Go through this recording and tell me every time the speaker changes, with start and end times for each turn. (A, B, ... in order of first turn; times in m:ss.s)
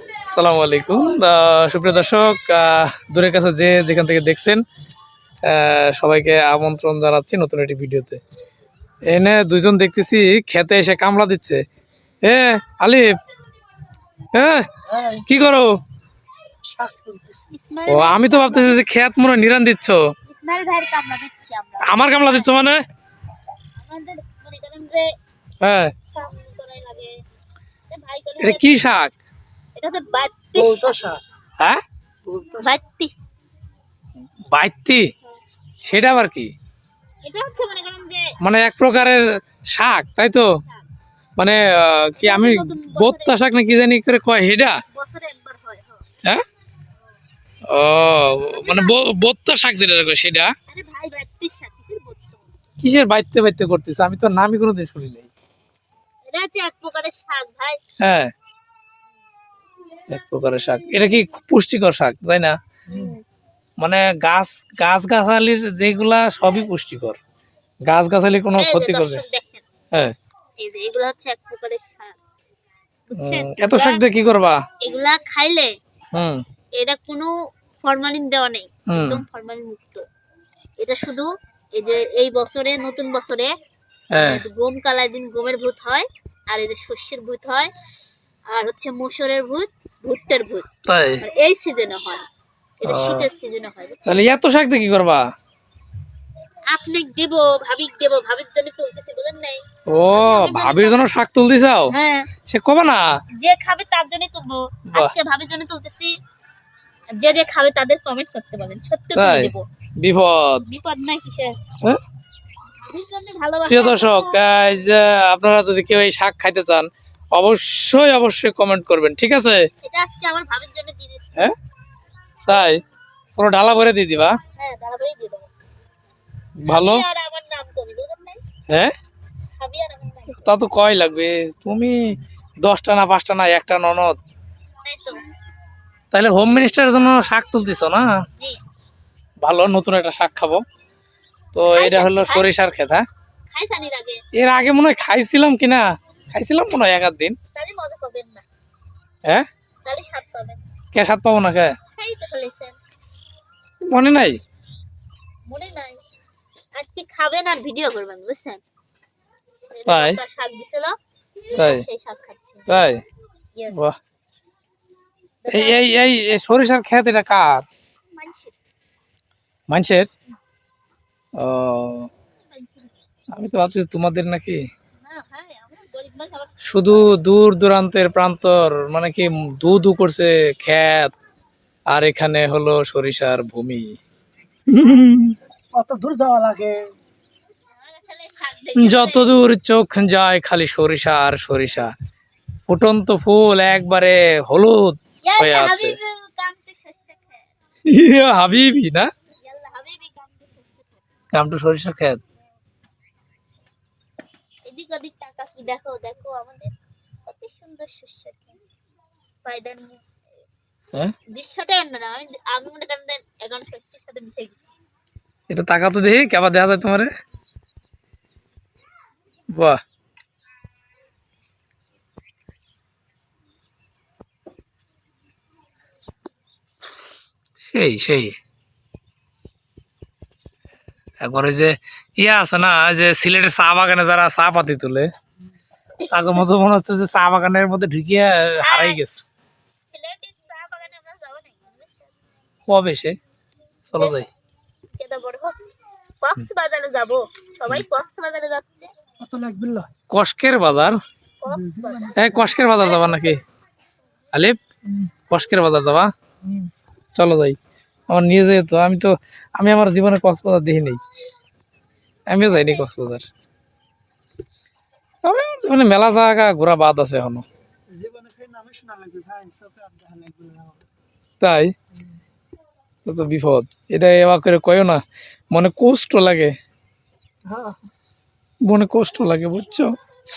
0:00.3-0:04.6 A
0:05.4-0:08.2 A
0:09.1-0:11.6 A
0:12.2-0:13.1 A
0:14.3-0:14.7 A
0:14.9-0:15.2 B
0:15.2-0:15.8 A
0:16.6-0:17.5 B
0:17.5-0:18.8 C
0:17.9-0:20.0 A
0:20.3-0:22.6 C
0:21.8-0:22.8 A
0:23.8-0:25.1 C
0:25.6-0:25.9 A
0:26.1-0:27.2 C
0:27.9-0:28.8 C
0:28.4-0:29.2 A
0:29.8-0:31.0 C
0:30.6-0:31.2 B
0:32.3-0:32.8 B
0:32.6-0:33.1 C
0:34.5-0:35.1 A
0:35.8-0:36.5 A
0:37.2-0:38.4 C
0:38.4-0:40.5 A
0:40.6-0:40.8 C
0:41.4-0:44.8 A
0:42.2-0:43.5 C
0:44.9-0:46.0 C
0:47.7-0:50.5 A
0:48.5-0:49.0 C
0:50.7-0:52.5 C
0:52.8-0:55.3 A
0:56.3-0:57.8 C
0:58.0-0:58.3 A
1:00.1-1:02.6 A
1:02.9-1:03.2 C
1:03.8-1:07.2 A
1:07.9-1:09.2 A
1:08.5-1:09.6 C
1:10.6-1:12.2 C
1:13.1-1:14.0 C
1:13.2-1:14.6 A
1:14.8-1:15.7 C
1:16.1-1:16.4 A
1:16.8-1:20.0 C
1:18.9-1:19.2 A
1:20.8-1:23.5 C
1:24.1-1:24.4 A
1:24.2-1:27.7 C
1:28.5-1:30.7 C
1:30.8-1:31.2 A
1:31.2-1:32.2 C
1:32.8-1:34.2 C
1:32.8-1:33.3 A
1:34.0-1:35.3 A
1:36.7-1:41.0 C
1:39.9-1:42.0 A
1:41.9-1:42.3 C
1:42.5-1:43.1 A
1:43.4-1:46.1 C
1:44.9-1:45.2 A
1:47.2-1:49.6 C
1:49.2-1:50.7 A
1:50.7-1:51.6 C
1:52.8-1:54.3 C
1:53.7-1:59.7 A
1:59.8-2:01.5 C
2:02.5-2:02.8 A
2:03.4-2:04.4 A
2:04.6-2:05.5 C
2:06.6-2:07.0 A
2:06.7-2:08.4 C
2:08.7-2:09.0 A
2:09.6-2:10.5 C
2:10.4-2:12.0 A
2:12.6-2:14.2 A
2:14.8-2:15.2 C
2:16.1-2:18.2 A
2:19.4-2:20.6 A
2:21.5-2:23.1 A
2:21.7-2:22.5 C
2:23.5-2:24.2 C
2:24.3-2:27.4 A
2:27.5-2:28.4 C
2:29.8-2:30.6 C
2:30.9-2:31.8 A
2:32.0-2:32.8 C
2:33.8-2:34.4 A
2:35.5-2:36.0 C
2:36.8-2:38.6 C
2:39.7-2:41.0 C
2:39.9-2:40.2 A
2:41.5-2:42.8 C
2:41.5-2:41.8 A
2:42.7-2:43.0 A
2:43.7-2:44.0 A
2:45.4-2:45.9 C
2:45.5-2:47.7 A
2:48.1-2:48.6 C
2:49.7-2:50.1 A
2:51.4-2:52.1 A
2:52.4-2:52.9 C
2:53.3-2:54.6 A
2:55.0-2:56.6 C
2:56.6-3:01.1 A
3:01.9-3:03.9 A
3:04.7-3:05.4 A
3:05.7-3:06.8 B
3:07.7-3:09.3 C
3:08.8-3:11.9 A
3:12.7-3:16.0 A
3:15.2-3:17.5 C
3:17.9-3:19.1 A
3:19.4-3:21.0 C
3:21.3-3:22.2 A
3:24.6-3:26.7 C
3:27.3-3:28.6 C
3:29.4-3:30.0 C
3:31.3-3:34.6 C
3:35.5-3:37.1 A
3:39.5-3:39.8 A
3:47.6-3:48.4 A
3:51.2-3:55.1 A
3:56.1-3:59.2 A
3:58.6-3:59.0 C
3:59.9-4:02.1 C
4:02.7-4:03.2 A
4:03.9-4:04.3 A
4:04.9-4:05.6 C
4:06.2-4:08.9 C
4:09.2-4:09.9 B
4:10.1-4:11.0 A
4:11.4-4:13.4 C
4:11.5-4:12.3 B
4:12.2-4:13.4 A
4:15.3-4:16.1 A
4:17.2-4:17.6 A
4:18.1-4:21.0 A
4:22.3-4:23.3 A
4:25.2-4:27.4 A
4:27.9-4:30.8 B
4:31.4-4:31.7 A
4:33.0-4:35.0 A
4:35.5-4:36.6 A
4:37.4-4:37.8 B
4:38.6-4:39.9 A